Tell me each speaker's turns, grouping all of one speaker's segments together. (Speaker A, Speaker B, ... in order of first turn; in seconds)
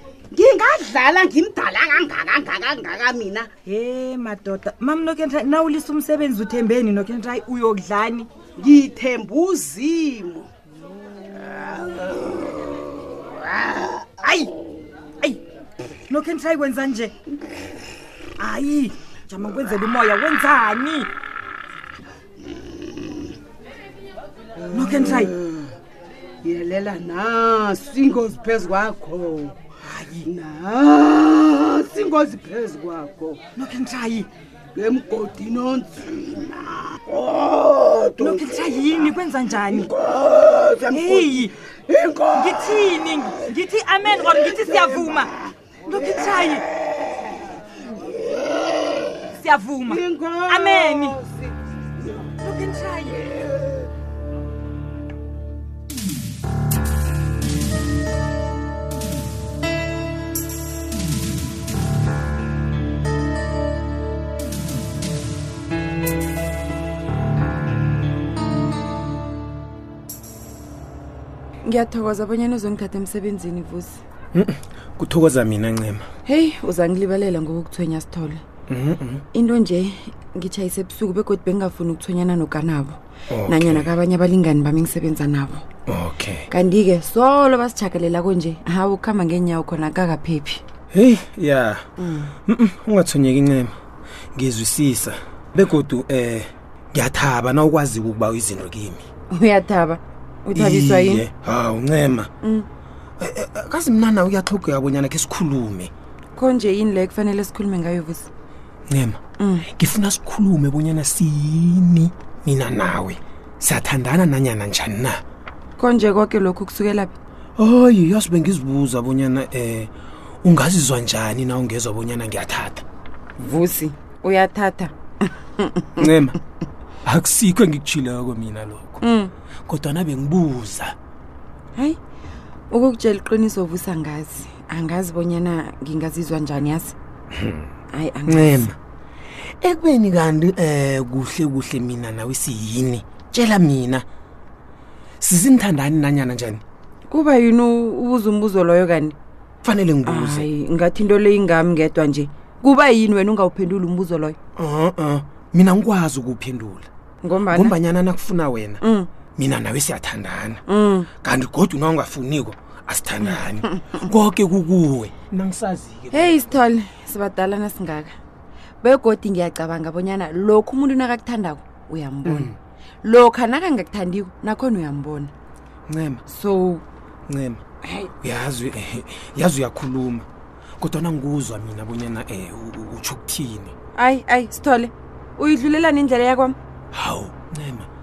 Speaker A: 0.3-3.5, 8.6-10.5, 11.5-12.8, 13.3-14.1, 24.6-25.7, 26.4-29.6, 30.2-33.4, 34.8-43.4, 44.0-45.3, 45.9-49.2, 49.8-51.5, 52.0-52.3
Speaker B: 3.6-8.3, 16.1-17.1, 18.4-21.1, 24.7-25.3, 29.9-30.2, 33.6-34.3, 38.2-39.9, 40.9-41.5, 42.4-45.3, 45.9-46.6, 49.4-51.2, 52.4-53.2
Speaker C: 71.6-74.0, 76.2-78.4, 79.3-85.7, 86.5-90.6, 92.0-92.3, 99.3-101.2, 106.3-108.3, 109.4-109.7, 115.8-117.1, 123.4-124.9, 125.6-126.0, 129.0-129.3, 132.7-136.9, 137.9-138.7, 147.1-149.2, 150.0-154.4, 157.2-157.8, 158.8-159.1, 160.7-161.1, 166.1-168.2, 168.8-172.5, 173.0-175.3, 176.3-176.8, 183.9-186.6
Speaker D: 74.3-76.1, 78.7-79.2, 83.3-84.0, 85.9-86.5, 90.9-91.9, 92.5-93.7, 94.3-99.0, 100.5-102.3, 103.2-105.9, 108.9-115.2, 117.6-119.9, 120.4-122.8, 126.0-126.4, 127.0-129.1, 129.7-130.9, 137.3-137.7, 138.3-138.8, 139.6-144.1, 145.2-146.6, 149.6-150.5, 154.6-156.9, 157.5-158.8, 159.4-160.6, 161.2-166.6, 172.2-172.6, 175.9-176.2, 177.3-177.6, 178.2-180.3, 180.8-183.7, 186.9-187.9